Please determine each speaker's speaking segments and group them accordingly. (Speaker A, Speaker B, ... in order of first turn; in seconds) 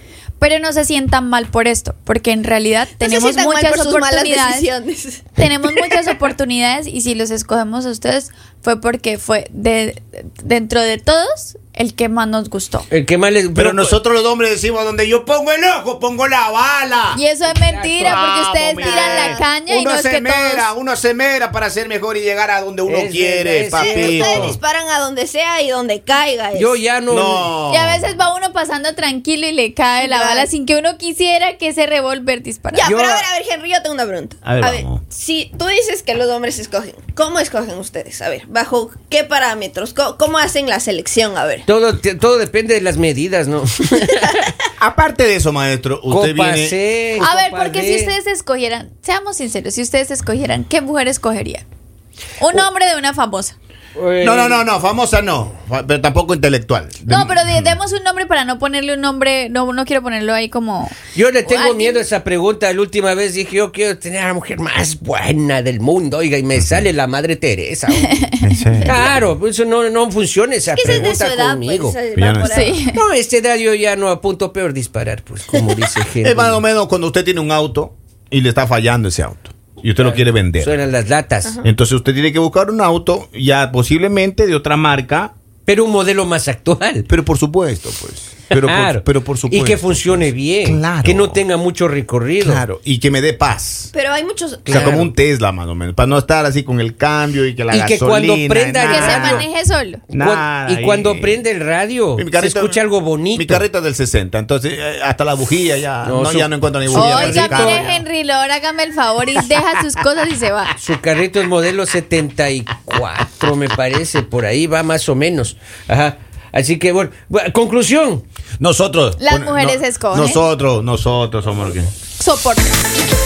Speaker A: 0.4-4.7, 5.4-12.9, 17.1-20.7, 27.7-32.9, 47.2-51.6, 52.4-53.5, 57.1-62.0, 68.1-69.1, 72.4-73.0, 98.9-100.0, 106.9-110.7, 119.2-120.4, 122.2-122.8
Speaker B: 3.0-6.1, 18.8-19.5, 23.8-26.8, 30.0-30.5, 32.7-41.6, 70.7-72.8, 93.9-95.0
Speaker C: 12.9-13.9, 17.6-18.2, 22.9-24.6, 26.5-27.5, 41.6-44.5, 46.1-48.1, 54.0-54.6, 61.1-68.3, 68.8-72.0, 72.9-76.6, 80.0-81.6, 85.7-87.1, 88.5-92.6, 94.7-95.1, 97.7-99.5, 100.1-103.6, 106.0-108.0, 110.8-118.2
Speaker D: 13.6-17.2, 18.0-24.6, 27.1-28.1, 32.9-33.2, 34.4-35.0, 44.8-46.8, 54.2-57.8, 66.6-66.9, 68.4-69.2, 72.1-72.8, 76.2-80.8, 81.6-85.3, 87.1-91.4, 92.4-93.9, 94.7-99.5, 100.1-101.4, 102.2-102.8, 103.3-107.9, 118.6-121.9